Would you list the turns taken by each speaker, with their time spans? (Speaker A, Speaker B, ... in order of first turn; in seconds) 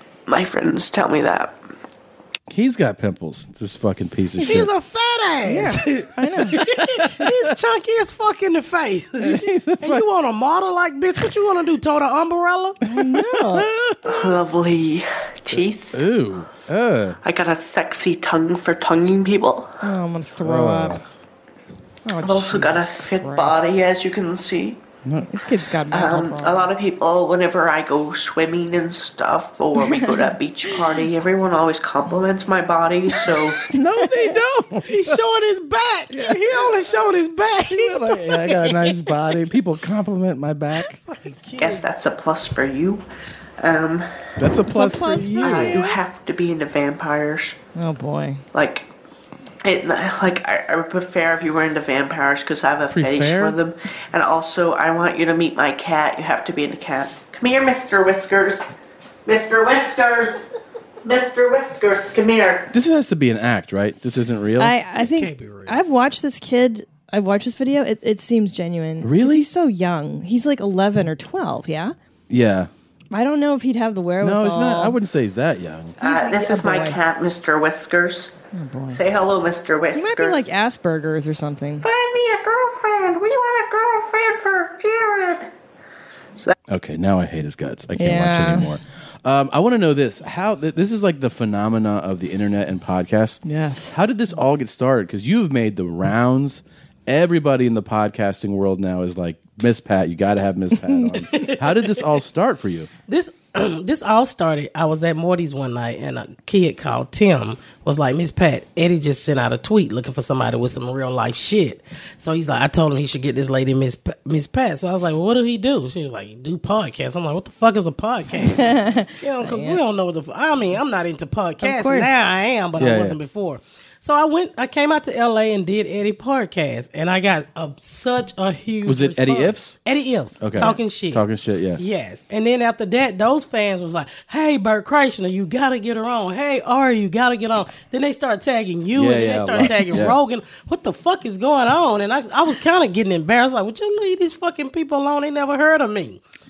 Speaker A: 0.3-1.6, 14.1-16.0, 17.2-19.7, 22.2-24.8, 25.9-33.6, 41.6-43.0, 43.6-44.2, 45.4-47.6, 48.5-48.9, 49.6-58.6, 59.3-60.4, 61.0-62.7, 76.0-78.3, 78.9-80.5, 81.8-85.5
Speaker B: 2.5-4.7, 6.6-7.3, 9.2-10.1, 13.3-14.2, 15.5-17.2, 20.4-21.0, 33.7-35.2, 36.1-36.8, 37.7-41.0, 44.4-45.8, 52.9-53.6, 62.7-64.7, 69.0-69.5, 72.3-72.7, 74.2-76.0, 86.7-102.9, 122.8-123.2, 128.8-129.7, 130.4-131.8, 138.9-140.2
Speaker C: 4.4-12.8, 34.9-39.1, 41.0-41.9, 64.9-65.8, 101.3-102.0, 103.1-131.2, 131.8-146.2
Speaker D: 5.5-6.6, 12.8-13.7, 19.8-21.0, 22.1-23.7, 25.2-26.7, 33.7-34.4, 44.7-46.0, 47.8-48.4, 64.6-72.0, 73.1-75.0, 76.0-77.0, 78.5-79.0, 80.0-81.8, 88.0-88.7, 93.5-94.0, 100.9-101.5, 118.4-119.8, 121.6-122.2